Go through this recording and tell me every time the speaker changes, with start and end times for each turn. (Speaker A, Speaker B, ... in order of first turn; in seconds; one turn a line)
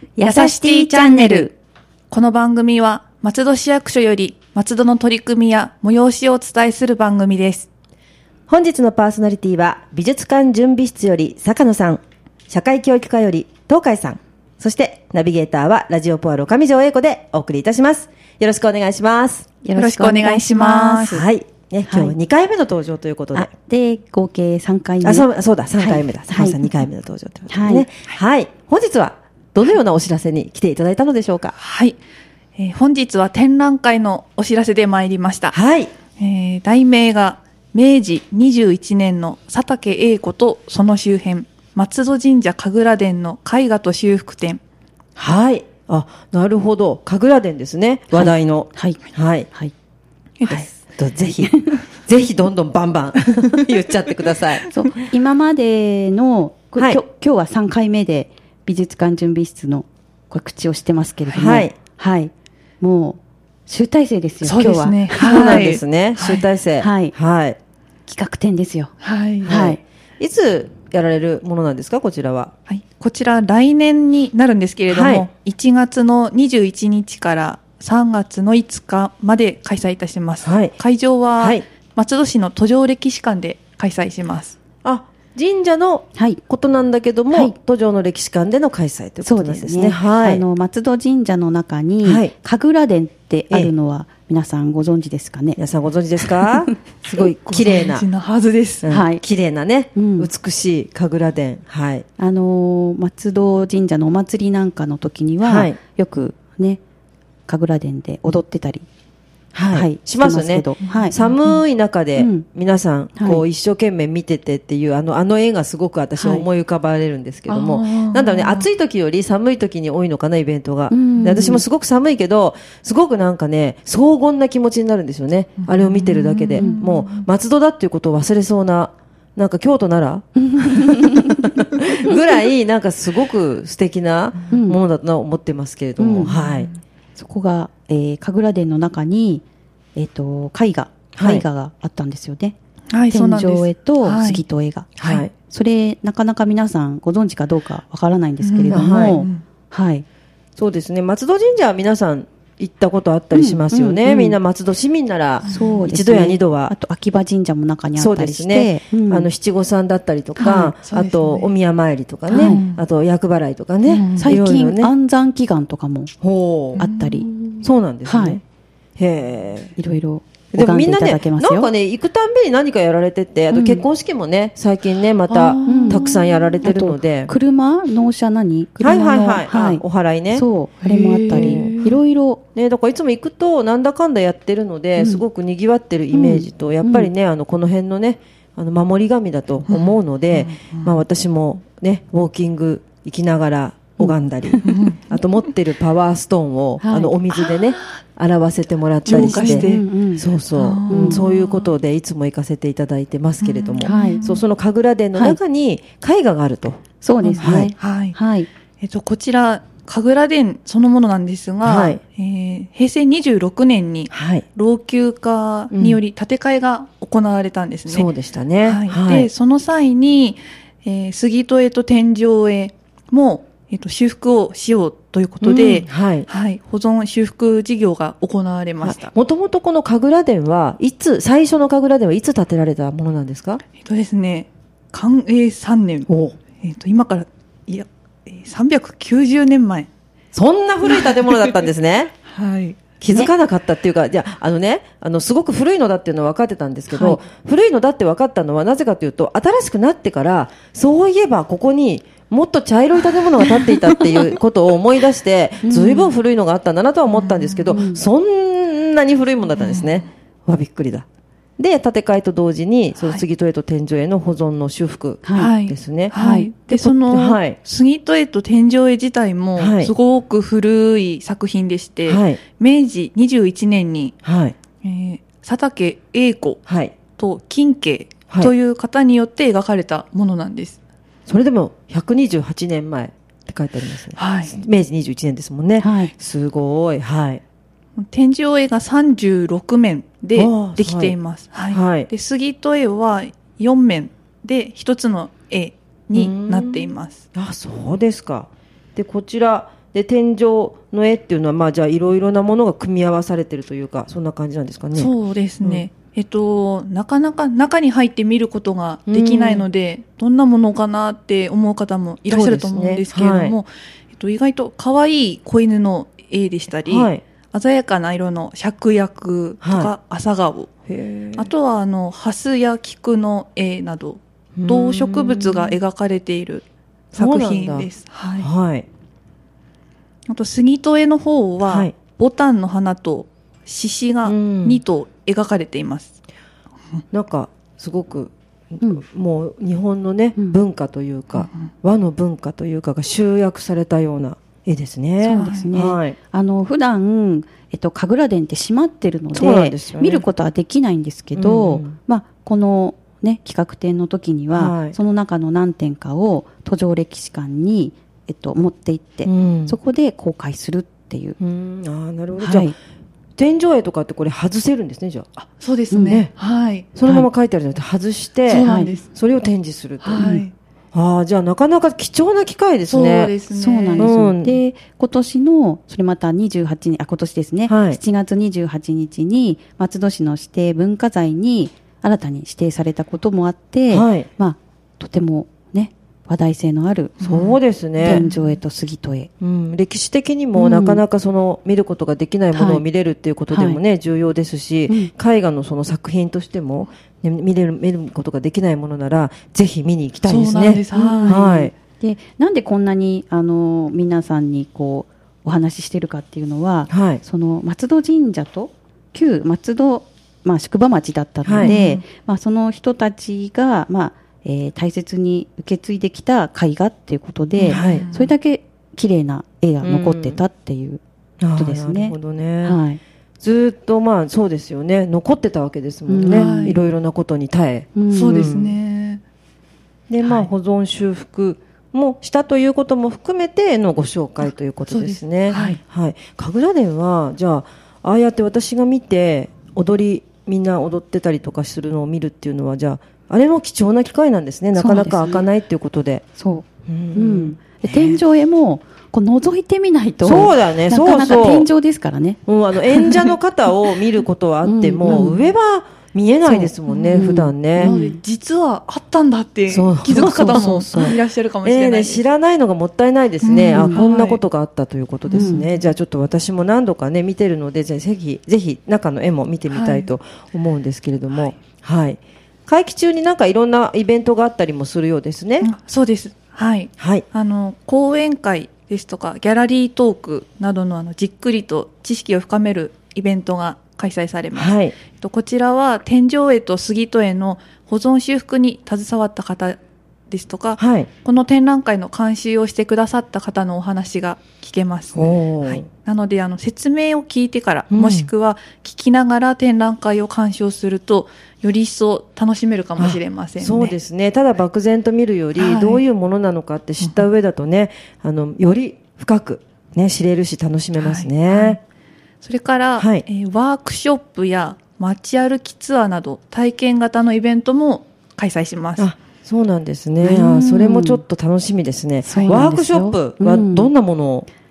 Speaker A: 0.2-1.5
Speaker B: 0.2-1.5
Speaker B: 2.1-7.7
Speaker C: 8.5-19.4
Speaker A: 19.6-21.2
Speaker B: 19.8-21.2
Speaker C: 21.1-23.5
Speaker A: 21.9-22.1
Speaker A: 23.3-26.7
Speaker C: 25.0-31.6
Speaker A: 27.5-27.9
Speaker B: 31.6-32.0
Speaker B: 32.6-35.5
Speaker C: 35.5-35.9
Speaker B: 36.2-44.6
Speaker C: 45.2-49.5
Speaker A: 48.1-49.7
Speaker B: 50.4-50.7
Speaker C: 50.5-54.7
Speaker A: 51.4-51.8
Speaker A: 54.7-65.6
Speaker C: 56.8-57.0
Speaker B: 61.3-61.6
Speaker C: 61.3-61.8
Speaker B: 64.4-66.5
Speaker C: 65.2-67.6
Speaker A: 66.8-67.1
Speaker A: 68.1-68.9
Speaker B: 69.0-69.6
Speaker A: 69.4-69.8
Speaker C: 69.4-72.5
Speaker B: 72.7-84.6
Speaker C: 74.9-75.3
Speaker C: 80.4-80.8
Speaker C: 81.4-81.6
Speaker C: 84.8-90.4
Speaker A: 86.1-86.4
Speaker A: 89.2-95.6
Speaker C: 92.0-92.3
Speaker C: 95.6-98.1
Speaker A: 96.2-96.7
Speaker B: 97.4-98.9
Speaker C: 98.8-102.0
Speaker A: 98.9-99.2
Speaker A: 99.9-100.3
Speaker A: 102.2-106.8
Speaker C: 105.4-105.8
Speaker A: 107.5-108.9
Speaker C: 109.5-136.7
Speaker A: 109.7-111.1
Speaker B: 110.8-111.6
Speaker A: 112.1-112.5
Speaker A: 113.2-113.4
Speaker A: 116.2-116.5
Speaker B: 117.5-118.7
Speaker A: 120.9-121.6
Speaker B: 125.6-127.3
Speaker A: 130.4-131.5
Speaker A: 134.5-134.8
Speaker A: 136.0-136.3
Speaker B: 136.2-136.8
Speaker A: 137.2-139.4
Speaker A: 140.0-142.6
Speaker C: 141.1-141.4
Speaker B: 142.9-144.4
Speaker A: 143.1-144.9
Speaker C: 145.0-145.3
Speaker B: 145.0-145.3
Speaker A: 145.4-150.0
Speaker B: 148.4-149.4
Speaker C: 148.7-149.2
Speaker C: 150.6-156.8
Speaker A: 153.3-154.4
Speaker B: 155.4-155.8
Speaker A: 155.4-159.3
Speaker C: 158.0-164.9
Speaker B: 160.4-161.5
Speaker B: 162.3-162.8
Speaker A: 162.3-162.6
Speaker B: 163.8-164.3
Speaker A: 164.2-166.1
Speaker C: 166.2-166.8
Speaker B: 166.8-167.2
Speaker A: 166.8-168.4
Speaker C: 167.6-168.4
Speaker C: 169.0-169.8
Speaker A: 169.8-171.7
Speaker C: 170.5-177.3
Speaker A: 173.5-173.9
Speaker B: 175.3-176.6
Speaker A: 175.6-176.1
Speaker A: 176.6-182.4
Speaker C: 178.8-180.5
Speaker B: 180.8-182.0
Speaker C: 181.3-181.7
Speaker C: 182.5-206.8
Speaker A: 185.0-185.2
Speaker A: 186.1-187.1
Speaker B: 189.7-191.0
Speaker A: 194.0-194.7
Speaker B: 194.7-195.2
Speaker A: 196.8-197.1
Speaker B: 197.3-198.0
Speaker B: 199.1-199.8
Speaker A: 199.1-200.3
Speaker B: 200.5-201.7
Speaker A: 200.9-201.2
Speaker B: 203.4-204.4
Speaker A: 203.8-204.2
Speaker A: 207.0-208.5
Speaker B: 207.2-208.2
Speaker C: 207.4-207.7
Speaker B: 208.8-218.1
Speaker C: 211.6-212.0
Speaker C: 214.1-214.4
Speaker C: 215.7-216.0
Speaker C: 217.9-219.3
Speaker B: 218.6-229.1
Speaker C: 225.4-226.2
Speaker C: 228.8-233.6
Speaker B: 233.8-239.9
Speaker C: 236.1-236.4
Speaker C: 240.3-242.1
Speaker B: 240.8-241.6
Speaker B: 242.2-242.9
Speaker C: 243.0-261.1
Speaker A: 246.9-247.2
Speaker B: 253.4-254.3
Speaker A: 255.6-256.1
Speaker B: 257.1-257.8
Speaker A: 257.7-258.1
Speaker B: 259.6-260.1
Speaker C: 261.6-266.1
Speaker A: 265.2-265.5
Speaker B: 265.4-274.1
Speaker A: 266.1-266.5
Speaker C: 266.7-267.6
Speaker C: 269.6-269.9
Speaker C: 272.1-272.4
Speaker C: 274.2-274.6
Speaker B: 274.8-276.6
Speaker C: 276.7-276.9
Speaker B: 277.1-280.8
Speaker C: 281.3-287.4
Speaker B: 284.1-284.6
Speaker A: 285.8-286.1
Speaker B: 288.0-297.2
Speaker C: 290.3-291.1
Speaker C: 291.7-292.1
Speaker C: 296.1-305.1
Speaker B: 304.9-320.7
Speaker C: 309.1-309.7
Speaker C: 312.2-313.6
Speaker C: 316.9-317.2
Speaker C: 319.6-319.9
Speaker C: 320.9-321.5
Speaker B: 321.4-328.5
Speaker C: 324.6-325.8
Speaker C: 327.1-328.9
Speaker B: 330.3-336.1
Speaker C: 331.6-331.9
Speaker C: 334.2-334.8
Speaker C: 337.1-346.2
Speaker B: 341.4-341.6
Speaker A: 345.2-361.4
Speaker B: 345.3-345.7
Speaker C: 349.3-350.2
Speaker C: 351.4-351.9
Speaker C: 354.5-355.0
Speaker C: 359.2-359.8
Speaker C: 361.4-362.7
Speaker A: 362.4-362.8
Speaker C: 363.4-365.3
Speaker B: 365.4-366.9
Speaker A: 365.9-366.3
Speaker C: 366.9-370.2
Speaker B: 368.5-369.1
Speaker A: 368.5-368.9
Speaker B: 370.0-370.5
Speaker A: 370.2-370.4
Speaker C: 370.9-373.3
Speaker B: 372.9-374.1
Speaker A: 373.5-387.2
Speaker C: 374.0-374.6
Speaker C: 377.7-378.0
Speaker C: 383.9-384.3
Speaker B: 387.2-388.5
Speaker C: 387.2-388.2
Speaker A: 388.0-389.3
Speaker C: 389.4-401.7
Speaker A: 390.5-391.0
Speaker A: 392.5-392.8
Speaker A: 393.5-393.8
Speaker B: 400.2-401.4
Speaker A: 400.9-421.0
Speaker C: 406.9-407.2
Speaker C: 411.4-411.8
Speaker B: 411.6-412.0
Speaker B: 417.6-418.3
Speaker C: 417.7-418.1
Speaker C: 419.8-420.4
Speaker C: 421.4-422.8
Speaker A: 421.5-423.0
Speaker C: 423.4-428.8
Speaker A: 426.1-426.8
Speaker B: 426.2-426.8
Speaker A: 427.9-428.5
Speaker B: 428.1-429.2
Speaker C: 430.1-446.2
Speaker B: 430.2-430.5
Speaker B: 434.9-435.8
Speaker A: 444.8-445.5
Speaker A: 446.4-453.3
Speaker C: 446.9-448.2
Speaker C: 450.2-451.7
Speaker C: 452.5-457.9
Speaker A: 454.6-455.5
Speaker A: 456.4-458.2
Speaker B: 456.9-462.2
Speaker C: 459.7-475.7
Speaker A: 460.1-461.2
Speaker B: 463.4-464.4
Speaker A: 463.7-464.0
Speaker B: 465.3-465.8
Speaker A: 465.3-465.6
Speaker B: 469.7-470.1
Speaker B: 475.6-489.8
Speaker C: 477.0-477.2
Speaker C: 484.5-484.9
Speaker B: 490.3-504.0
Speaker C: 490.8-491.1
Speaker C: 495.1-495.9
Speaker C: 497.9-498.3
Speaker C: 503.0-511.8
Speaker B: 505.5-506.0
Speaker B: 507.0-507.3
Speaker B: 511.0-511.8
Speaker B: 512.4-519.1
Speaker C: 513.0-513.2
Speaker C: 519.0-524.5
Speaker A: 520.2-521.2
Speaker A: 522.2-523.9